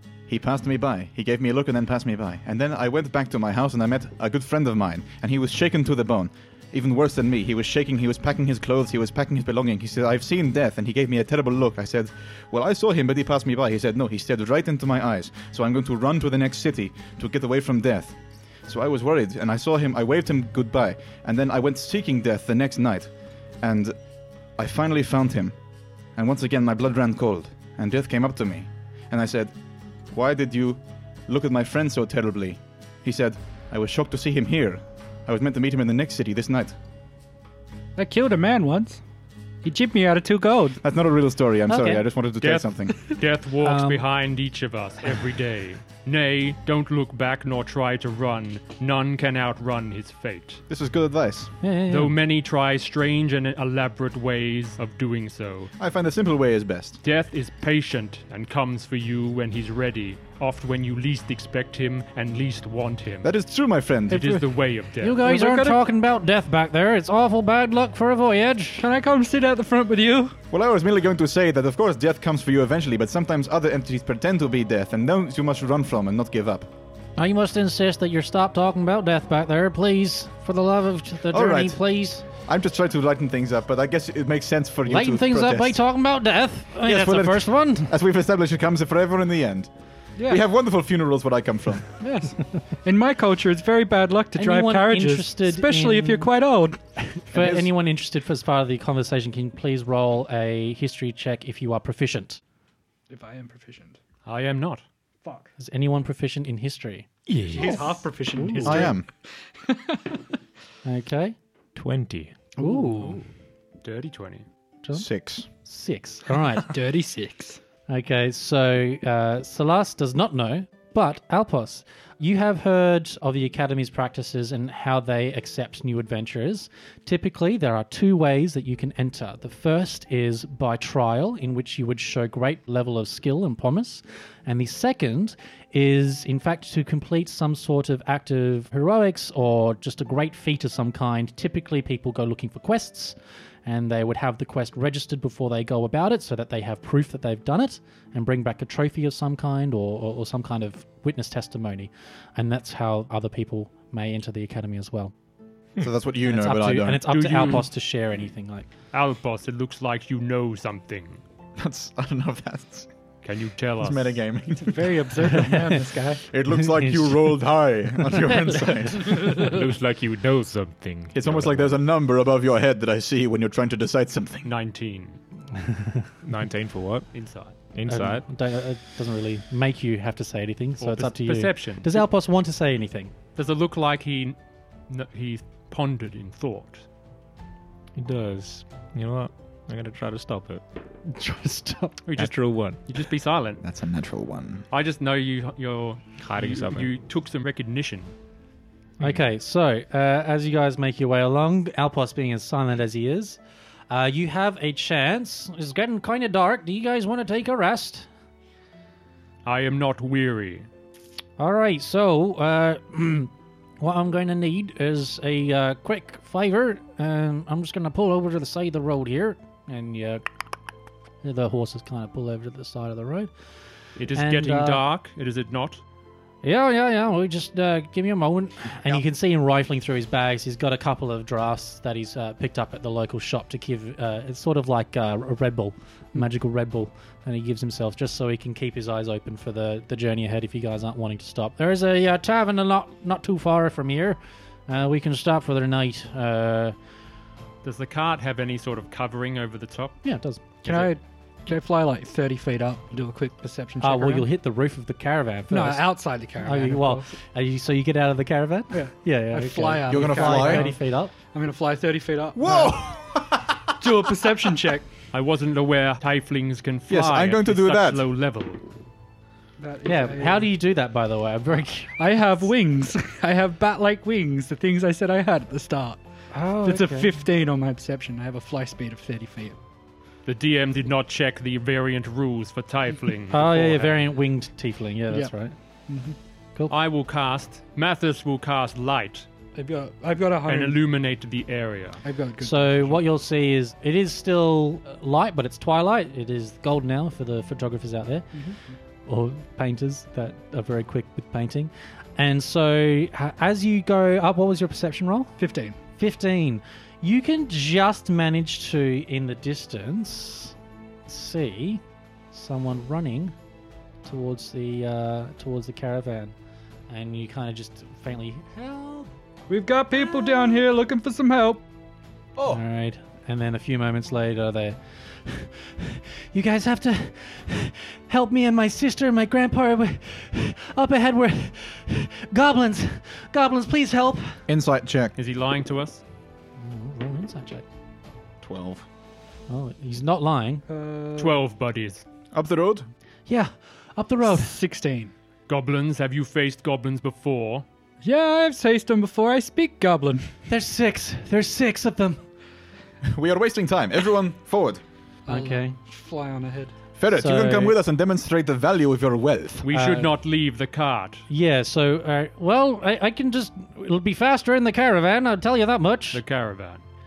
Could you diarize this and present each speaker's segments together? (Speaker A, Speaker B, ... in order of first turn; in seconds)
Speaker A: 0.3-23.1, 23.6-23.9, 24.6-25.6, 26.1-29.5, 30.1-36.8, 40.8-43.0, 50.7-51.5, 55.8-57.0, 63.2-64.4, 70.5-76.7, 81.3-81.8, 82.4-85.8, 86.8-89.7, 90.2-91.9, 97.3-97.7, 108.6-109.0, 114.9-115.5, 155.8-157.1, 161.6-162.9, 163.8-165.2, 166.2-169.5, 171.1-174.5, 193.6-194.6, 259.9-260.7, 262.3-263.9, 266.9-268.0, 334.5-335.1, 338.4-338.9, 342.3-342.9, 353.0-354.8, 357.0-359.6
Speaker B: 38.0-39.0, 39.6-40.8, 65.2-65.8, 68.8-70.4, 90.2-90.4, 92.0-96.8, 103.1-104.0, 105.2-105.5, 107.5-110.2, 112.6-113.2, 116.7-117.6, 164.6-166.2, 250.6-254.3, 255.5-257.1, 258.7-262.9, 263.8-264.9, 269.6-270.5, 271.9-276.0, 276.6-279.6, 285.9-286.2, 289.5-290.8, 292.0-293.0, 305.4-305.8, 319.5-321.6, 340.7-341.4, 344.2-345.1, 348.0-350.3, 355.3-356.8
Speaker C: 41.7-42.0, 43.6-44.0, 51.6-52.1, 65.0-68.8, 77.2-82.2, 84.9-87.9, 94.3-96.3, 97.3-102.4, 105.6-108.9, 110.8-111.3, 112.6-113.2, 114.8-116.7, 117.9-155.1, 156.2-158.7, 165.3-165.8, 166.5-167.3, 168.2-168.6, 175.6-176.0, 177.9-183.1, 191.0-192.0, 199.0-208.1, 211.4-220.2, 221.2-223.3, 224.1-224.8, 226.4-246.7, 250.0-250.9, 253.8-261.1, 269.8-271.9, 276.3-277.1, 283.3-285.5, 292.4-298.4, 299.0-305.4, 306.0-310.5, 311.1-313.3, 314.0-316.3, 316.9-319.1, 322.5-334.4, 336.6-337.6, 339.5-340.6, 343.3-344.6, 350.5-352.2, 355.3-355.8, 357.1-357.8, 359.7-360.1, 361.3-366.2
Speaker D: 42.4-50.6, 51.9-55.7, 57.0-63.3, 64.1-65.2, 104.2-104.8, 113.8-114.5, 157.1-157.7, 158.9-161.2, 163.2-164.2, 174.4-175.2, 177.1-177.6, 180.8-182.0, 183.3-184.3, 184.9-186.8, 192.1-193.6, 194.7-198.1, 209.4-210.7, 224.0-225.8, 247.6-250.0, 265.1-268.6, 280.2-284.0, 286.7-289.3, 290.5-292.0, 335.1-336.0, 341.1-342.0, 345.5-347.6, 359.6-361.2, 366.1-366.8
Speaker E: 107.3-107.9, 111.7-112.3, 169.1-171.8, 176.2-177.1, 177.7-178.2, 187.9-190.6, 192.1-192.8, 196.2-196.9